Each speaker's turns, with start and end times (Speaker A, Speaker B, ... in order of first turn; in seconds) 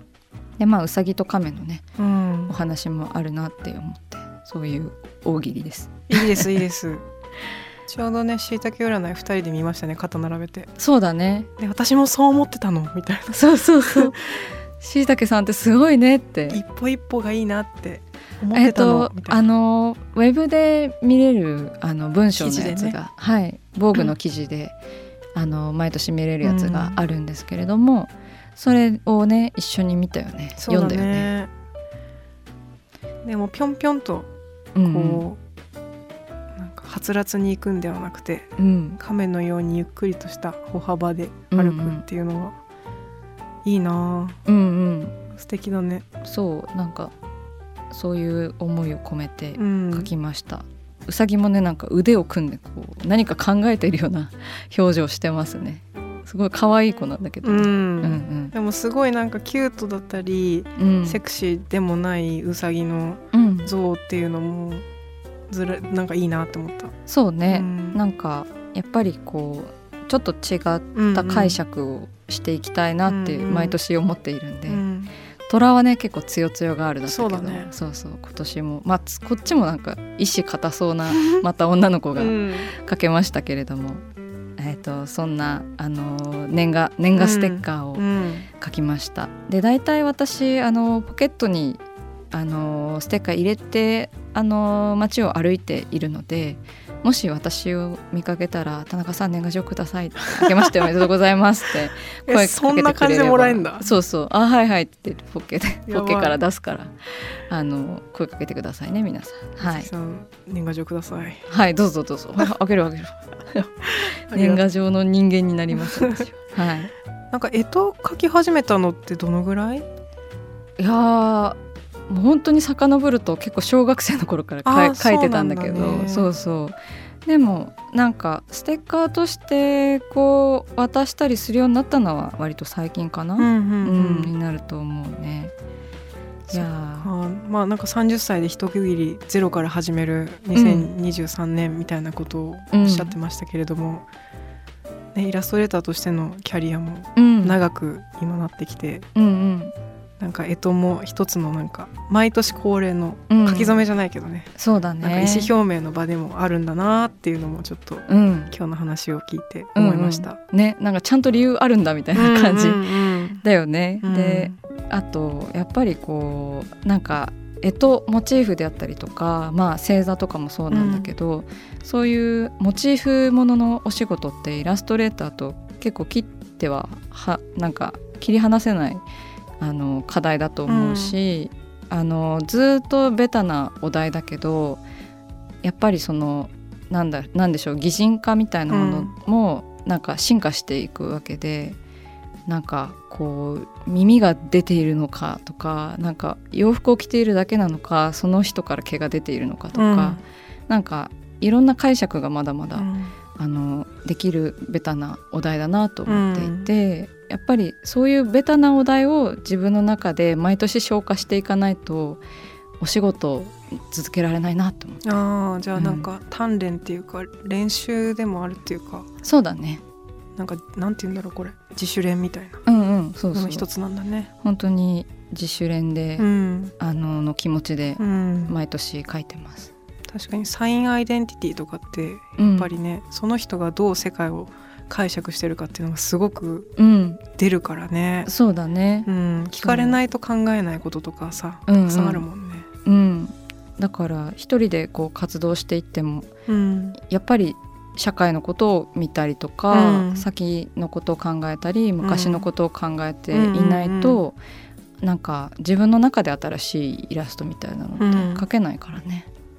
Speaker A: 0.6-1.9, 2.5-6.6, 10.8-11.5, 13.3-16.6, 18.5-24.8, 25.4-31.3, 34.8-35.2, 38.6-39.0, 41.5-42.0, 44.5-45.1, 46.2-47.1, 47.9-58.5, 60.8-61.2, 63.3-63.7, 67.0-74.8, 75.5-84.0, 84.6-91.8, 92.3-109.9, 111.5-113.7, 114.3-116.9, 120.8-135.5, 136.5-137.1, 140.5-140.9, 142.7-143.2, 147.2-147.6, 149.2-149.7, 153.3-153.8, 154.6-155.5, 158.1-158.5, 159.8-162.8, 163.4-179.0, 179.6-184.8, 185.6-191.8, 192.5-212.2, 212.8-215.2, 215.8-216.1, 219.2-219.8, 222.7-223.7, 224.4-229.7, 232.4-232.7, 236.8-237.2, 238.2-240.0, 241.7-242.3, 242.8-246.3, 247.0-254.4, 255.0-259.3
Speaker B: 2.0-2.5, 6.1-7.0, 7.9-10.7, 11.6-14.2, 16.5-19.5, 22.4-23.0, 26.4-27.0, 30.6-31.5, 33.2-34.3, 34.8-35.4, 36.6-42.5, 43.6-44.4, 45.4-46.0, 49.5-50.1, 57.4-64.8, 65.5-66.9, 67.5-68.0, 70.9-71.6, 73.0-73.8, 74.7-75.1, 77.0-77.7, 82.2-82.7, 87.1-88.5, 102.3-103.9, 105.9-106.4, 109.6-111.4, 113.9-114.7, 115.7-116.2, 117.3-119.9, 124.6-126.3, 133.4-134.3, 136.5-144.0, 145.2-149.1, 150.2-160.4, 162.1-163.4, 164.0-164.6, 170.7-171.1, 180.7-181.2, 188.7-189.1, 199.7-200.2, 202.8-203.2, 206.1-206.7, 215.0-219.1, 220.3-222.6, 223.3-224.3, 226.2-226.7, 228.0-228.5, 230.1-236.7, 237.3-238.3, 239.1-242.7, 246.5-247.0, 249.7-250.3, 252.0-252.5, 253.3-254.2, 258.0-258.4